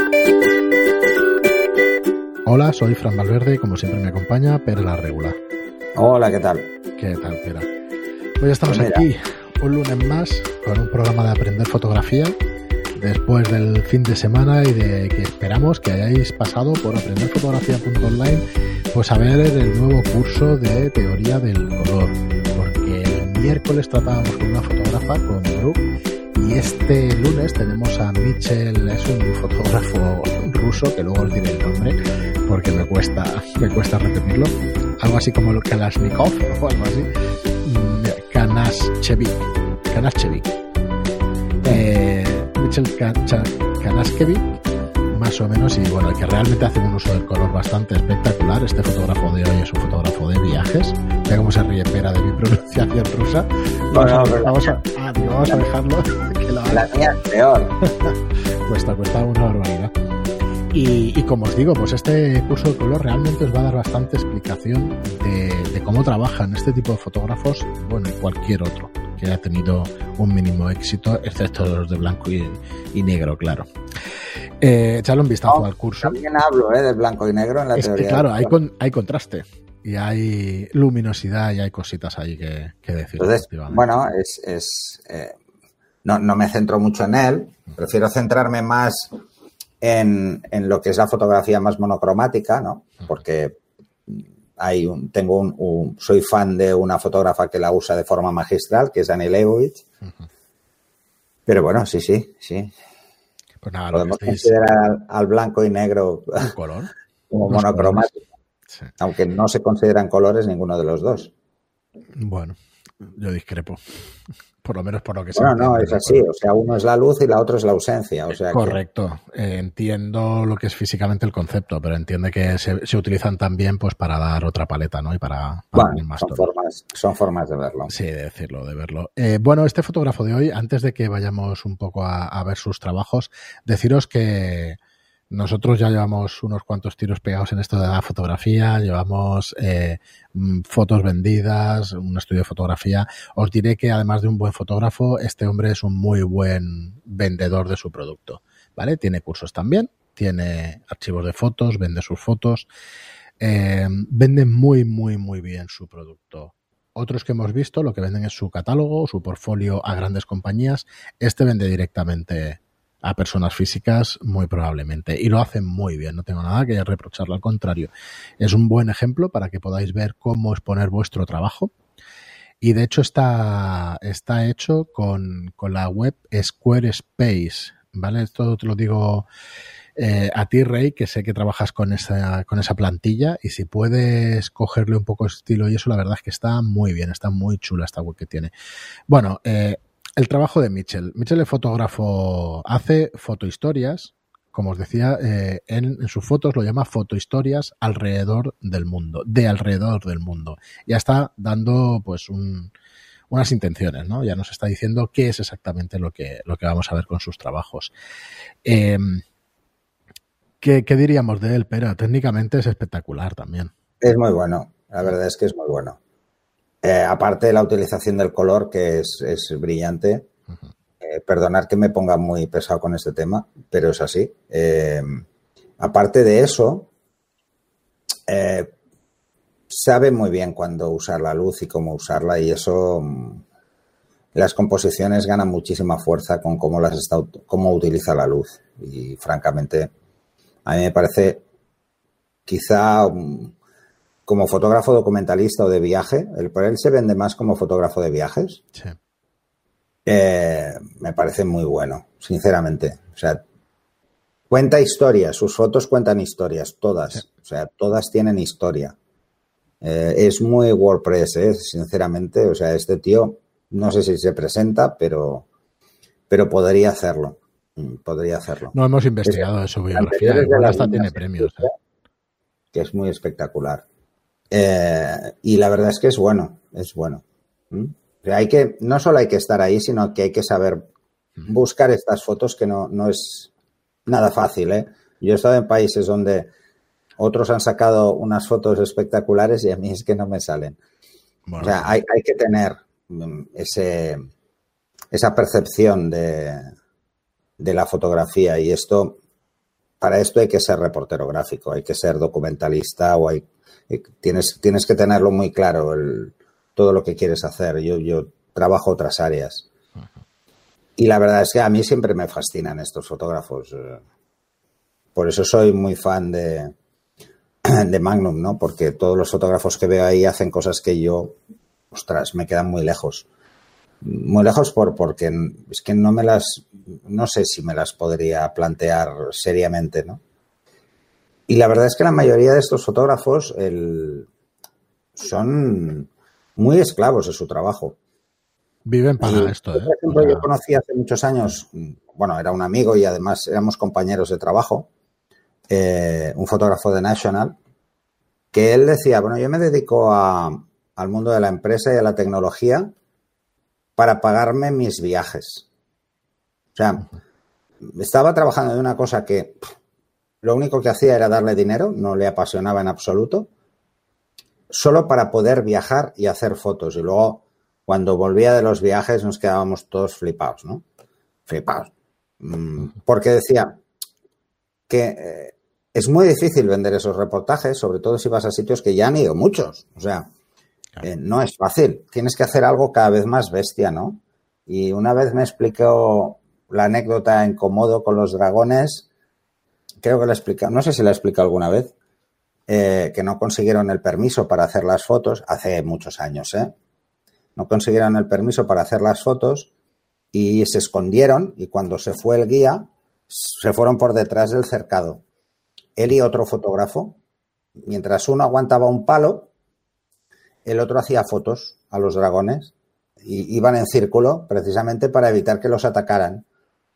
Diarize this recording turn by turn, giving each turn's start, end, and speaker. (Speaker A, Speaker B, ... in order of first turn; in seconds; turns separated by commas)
Speaker A: 2.5-5.4, Speaker B: 6.0-6.7, Speaker A: 7.0-7.7, Speaker A: 8.4-12.3, Speaker B: 8.7-9.1, Speaker A: 12.9-25.8, Speaker A: 26.4-31.9, Speaker A: 32.5-37.1, Speaker A: 37.6-40.5, Speaker A: 41.6-44.5, Speaker A: 45.1-56.9, Speaker B: 53.9-54.8, Speaker B: 56.7-57.7, Speaker A: 58.0-59.9, Speaker A: 60.7-73.7, Speaker A: 74.6-76.2, Speaker B: 75.5-78.5, Speaker A: 77.8-83.8, Speaker B: 83.2-85.3, Speaker B: 86.0-89.1, Speaker B: 89.8-93.6, Speaker B: 94.1-99.8, Speaker B: 101.5-102.7, Speaker A: 103.6-104.6, Speaker B: 103.9-106.5, Speaker A: 106.4-106.9, Speaker B: 107.3-108.2, Speaker A: 107.5-108.1, Speaker B: 109.0-111.3, Speaker A: 112.2-113.8, Speaker A: 114.6-116.2, Speaker B: 115.3-118.8, Speaker A: 118.3-126.5, Speaker B: 125.7-127.9, Speaker A: 127.9-134.8, Speaker A: 135.3-152.7, Speaker A: 153.4-171.7, Speaker A: 172.6-179.2, Speaker A: 180.0-188.5, Speaker A: 189.1-202.7, Speaker A: 203.3-207.9, Speaker A: 208.7-209.2, Speaker A: 210.6-213.7, Speaker B: 214.0-216.0, Speaker B: 216.8-220.3, Speaker B: 221.0-225.2, Speaker B: 225.8-226.9, Speaker B: 228.3-228.7, Speaker B: 229.7-233.4, Speaker B: 234.3-239.9, Speaker B: 240.7-241.4, Speaker B: 242.5-243.5, Speaker B: 244.2-248.6, Speaker B: 250.1-253.4, Speaker B: 254.5-258.9, Speaker B: 259.8-265.4, Speaker B: 266.3-271.7, Speaker A: 268.7-271.7, Speaker B: 272.7-273.8, Speaker B: 274.5-280.9, Speaker B: 281.4-283.5, Speaker B: 284.1-286.5, Speaker B: 287.2-290.8, Speaker A: 291.5-291.9, Speaker B: 291.6-294.2, Speaker B: 295.1-296.6, Speaker B: 297.6-299.2, Speaker B: 300.0-309.7, Speaker B: 311.0-314.0, Speaker B: 315.1-316.7, Speaker B: 317.7-321.4, Speaker B: 321.9-323.3, Speaker B: 324.0-330.2, Speaker B: 331.5-334.3, Speaker B: 335.2-338.0, Speaker A: 338.9-340.5, Speaker B: 339.2-344.9, Speaker B: 345.7-347.6, Speaker B: 348.5-352.9, Speaker B: 354.0-355.7, Speaker B: 356.8-357.1, Speaker B: 357.9-359.6, Speaker B: 360.4-363.5, Speaker B: 364.7-370.8, Speaker B: 371.5-373.8, Speaker B: 374.9-380.3, Speaker B: 381.0-389.1, Speaker B: 390.0-391.9, Speaker B: 392.7-396.7, Speaker B: 397.6-399.7, Speaker B: 400.3-405.2, Speaker B: 405.9-407.2, Speaker B: 407.9-409.5, Speaker B: 410.6-412.7, Speaker B: 413.2-416.4